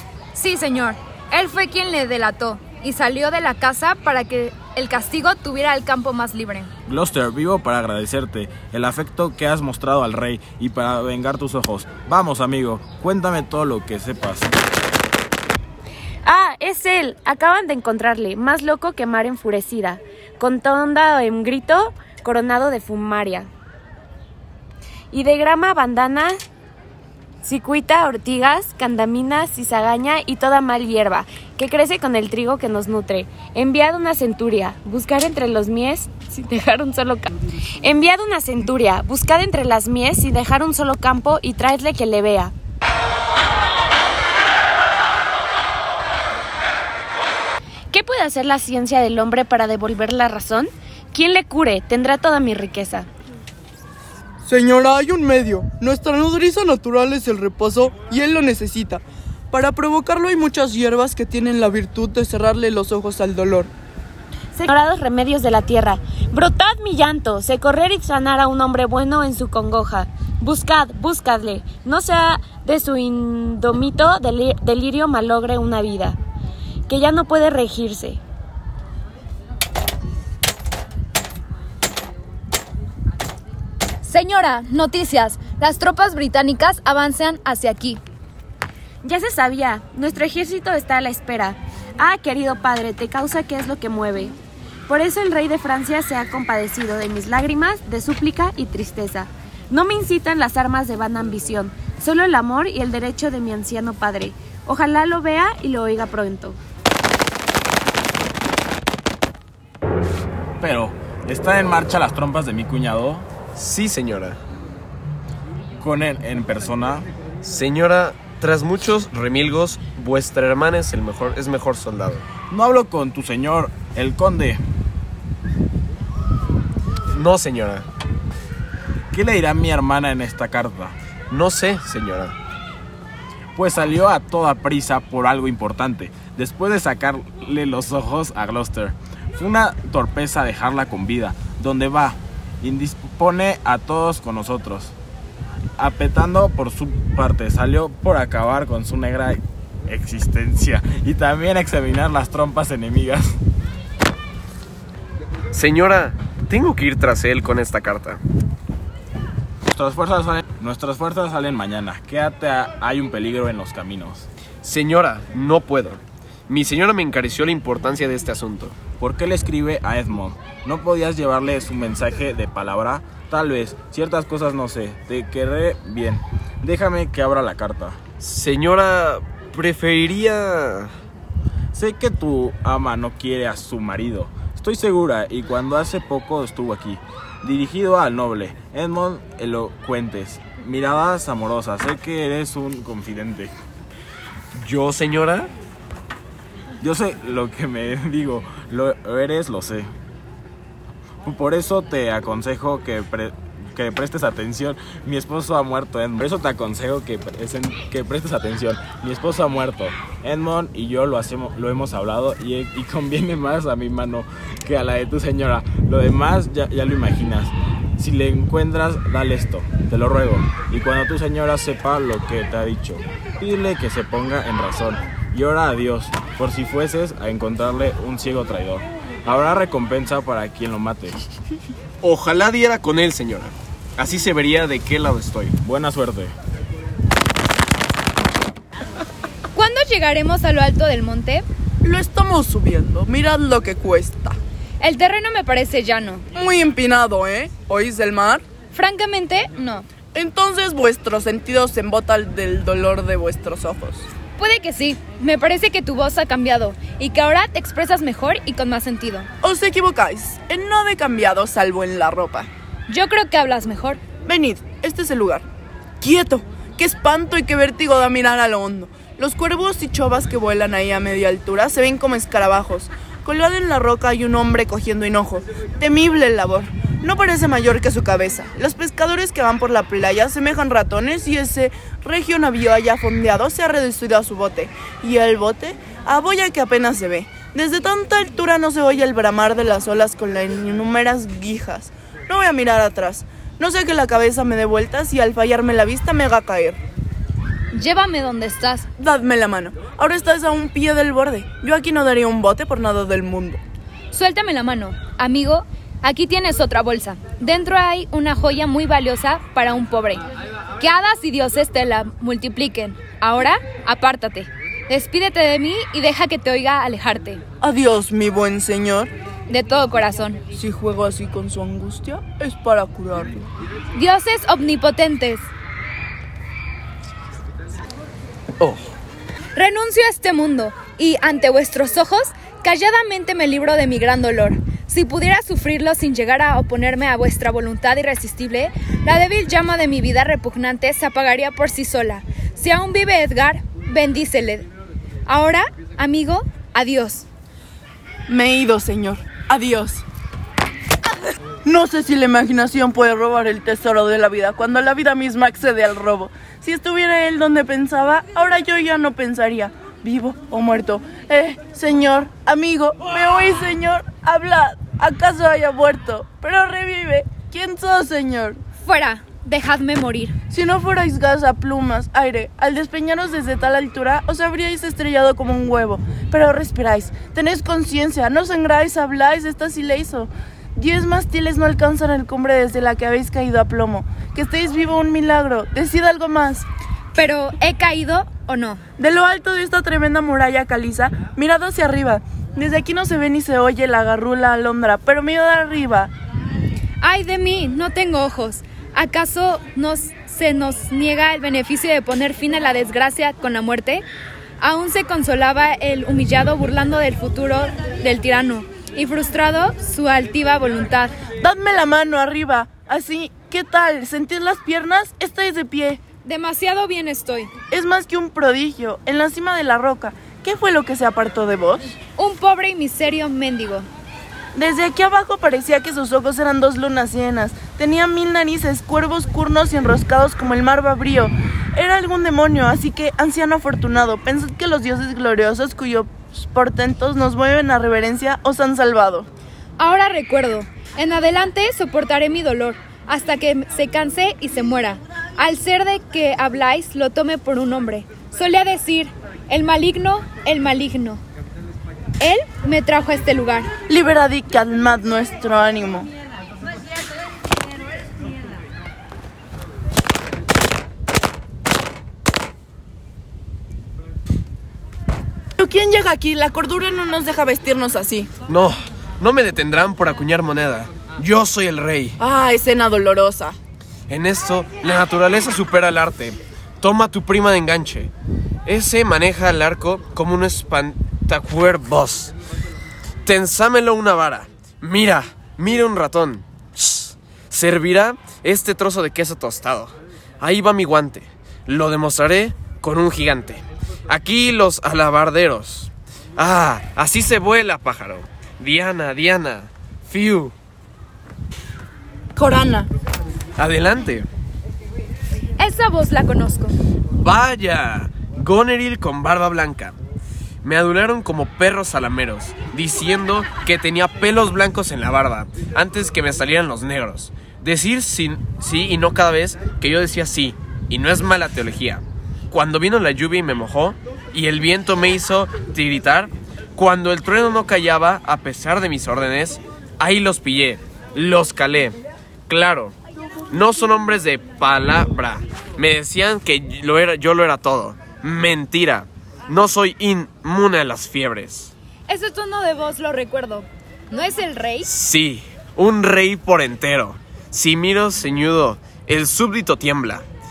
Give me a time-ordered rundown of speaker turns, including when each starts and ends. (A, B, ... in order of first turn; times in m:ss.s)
0:00.3-0:06.7 A
0:06.8-0:14.5 B
0:16.2-0:23.5 C
0:25.1-0:26.4 C
0:27.4-0:42.5 C
0:47.9-0:53.1 C
0:54.4-1:03.7 D
1:04.5-1:16.2 C
1:16.9-1:18.2 C
1:24.0-1:28.0 A
1:29.0-1:34.4 C
1:34.9-1:46.6 C
1:50.6-1:53.3 B
1:53.6-1:54.4 E
1:55.8-1:57.1 B
1:57.4-2:02.2 E
2:02.5-2:04.6 B
2:07.1-2:07.9 E
2:09.1-2:10.9 B
2:11.3-2:12.4 E
2:13.5-2:24.9 B
2:25.8-2:33.4 B
2:35.5-2:38.2 E
2:39.7-2:44.3 B
2:44.6-2:48.8 E
2:49.0-2:58.0 B
2:58.2-3:00.9 E
3:01.7-3:13.5 B
3:14.5-3:15.5 E
3:16.8-3:19.9 B
3:21.2-3:51.2 B
3:52.0-3:55.5 E
3:55.6-3:56.3 B
3:59.5-4:01.4 A
4:01.8-4:04.4 D
4:04.8-4:06.2 A
4:06.3-4:08.4 D
4:08.7-4:09.5 A
4:09.6-4:14.1 D
4:14.4-4:19.3 A
4:19.4-4:22.5 D
4:22.9-4:24.0 A
4:24.2-4:25.4 D
4:26.0-4:56.8 D
4:57.7-4:58.9 A
4:59.0-5:03.6 D
5:04.1-5:10.3 A
5:10.8-5:17.4 A
5:17.6-5:19.1 D
5:19.5-5:20.4 A
5:20.5-5:23.4 D
5:23.9-5:25.5 A
5:28.6-5:28.9 E
5:29.6-5:44.7 A
5:45.2-5:47.2 A
5:48.3-5:50.0 D
5:51.6-6:08.6 D
6:08.8-6:10.4 A
6:10.5-6:26.7 D
6:27.1-6:28.8 A
6:29.0-6:36.1 D
6:37.0-6:44.0 A
6:44.6-6:51.1 A
6:51.4-6:56.0 D
6:56.2-6:57.5 A
6:57.7-7:02.0 D
7:02.2-7:03.9 A
7:04.5-7:19.3 D
7:19.8-7:31.2 A
7:32.2-7:33.7 A
7:33.9-7:36.1 D
7:45.6-7:48.3 D
7:48.5-7:52.2 E
7:52.2-7:53.6 D
7:54.1-7:58.1 E
7:58.6-8:02.3 E
8:03.2-8:20.5 E
8:22.4-8:22.9 D
8:23.6-8:24.3 E
8:25.6-8:26.8 A
8:27.2-8:29.9 E
8:30.6-8:52.9 E
8:53.5-9:01.7 E
9:02.1-9:04.9 A
9:04.8-9:10.2 E